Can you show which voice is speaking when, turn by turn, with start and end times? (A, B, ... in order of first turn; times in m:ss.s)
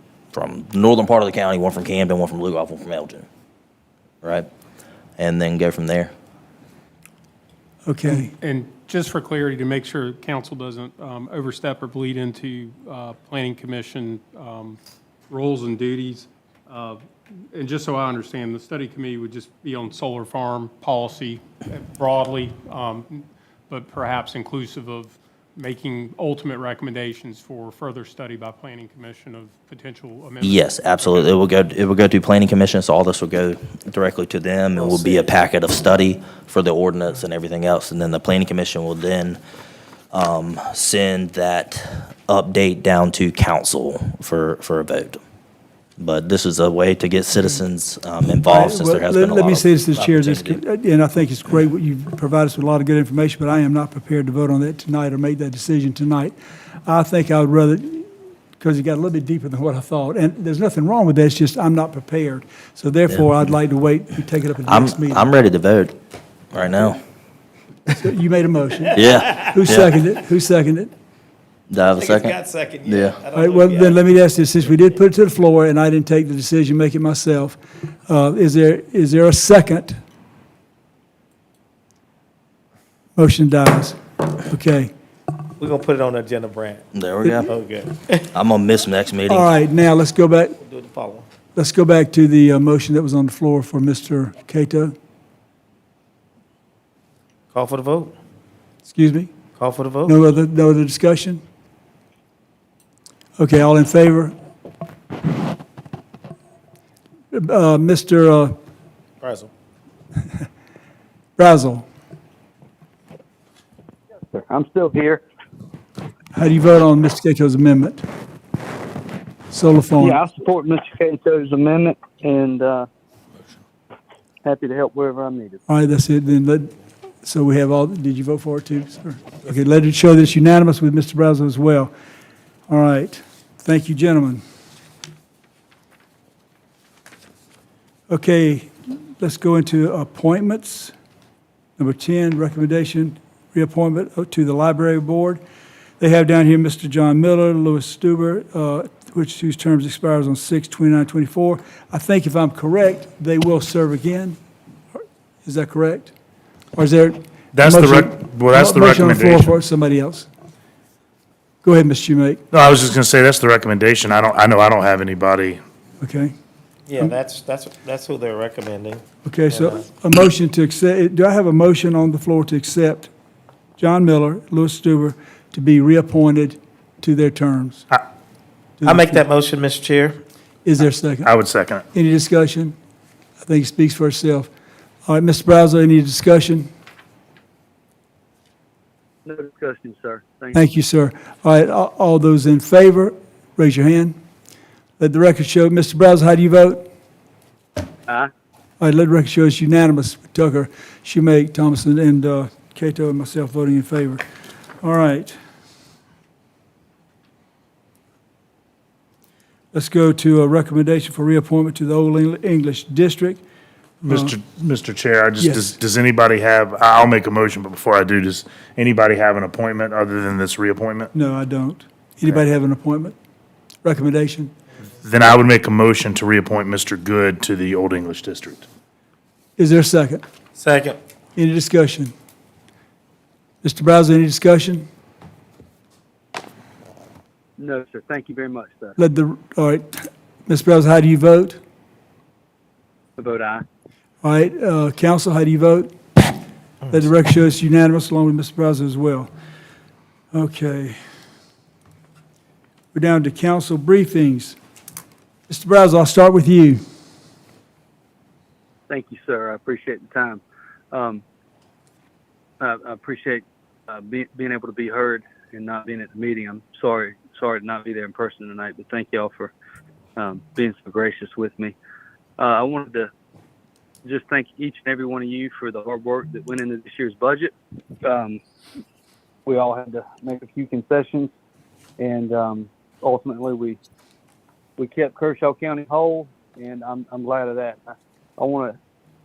0:00.3-0:03.2 A
0:04.2-0:04.5 A
0:05.2-0:06.1 A
0:07.8-0:08.3 B
0:08.1-0:31.4 C
0:30.4-0:39.4 A
0:34.7-0:35.3 D
0:40.1-0:45.2 A
0:46.0-0:50.6 A
0:48.4-1:05.3 B
1:03.1-1:03.4 A
1:04.6-1:06.0 A
1:06.5-1:07.0 A
1:07.9-1:10.9 B
1:08.9-1:10.0 A
1:11.7-1:13.2 A
1:11.9-1:14.0 D
1:13.3-1:20.0 B
1:23.2-1:24.9 B
1:25.6-1:28.3 D
1:26.9-1:27.5 A
1:28.3-1:29.4 A
1:29.3-1:30.6 B
1:30.6-1:31.3 D
1:31.5-1:34.9 B
1:37.5-1:38.2 D
1:38.8-1:39.3 B
1:39.6-1:40.1 D
1:40.0-1:41.4 B
1:43.4-1:44.3 B
1:47.3-1:48.6 B
1:49.2-1:49.5 D
1:51.4-1:51.8 B
1:54.1-1:55.2 E
1:56.3-1:58.0 B
1:59.5-2:00.2 B
2:00.0-2:02.9 E
2:04.4-2:05.6 E
2:05.7-2:11.9 B
2:12.7-2:14.4 B
2:18.1-2:20.9 B
2:21.8-2:25.4 B
2:26.0-2:34.4 B
2:35.0-2:36.1 B
2:36.8-2:40.3 B
2:37.5-2:39.5 F
2:41.6-2:42.4 B
2:42.5-2:45.6 F
2:46.0-2:46.3 B
2:46.9-2:49.8 D
2:49.2-2:53.1 B
2:53.8-2:57.8 B
2:58.8-2:59.1 B
2:58.8-3:00.2 D
3:00.6-3:01.3 B
3:01.2-3:01.8 F
3:01.9-3:02.8 B
3:03.4-3:04.5 B
3:05.1-3:06.7 B
3:09.2-3:10.6 E
3:10.5-3:14.2 B
3:15.0-3:16.9 B
3:18.0-3:18.3 E
3:18.8-3:24.2 B
3:24.8-3:25.4 B
3:29.7-3:33.4 B
3:34.0-3:34.3 B
3:34.1-3:41.1 F
3:35.4-3:35.7 B
3:41.1-3:43.1 B
3:43.8-3:44.5 B
3:45.0-3:48.6 F
3:49.6-3:50.2 B
3:50.6-3:51.0 D
3:51.4-3:52.1 B
3:53.6-3:54.9 B
3:57.6-3:59.0 E
3:59.0-4:01.6 B
4:03.2-4:03.6 E
4:04.2-4:05.9 B
4:06.9-4:09.3 B
4:10.3-4:11.0 B
4:12.9-4:14.6 B
4:15.5-4:16.8 B
4:18.9-4:21.2 E
4:22.6-4:29.5 E
4:30.2-4:31.8 E
4:32.4-4:33.1 E
4:34.0-4:38.4 E
4:39.4-4:41.3 E
4:42.0-4:43.8 E
4:44.8-4:48.8 E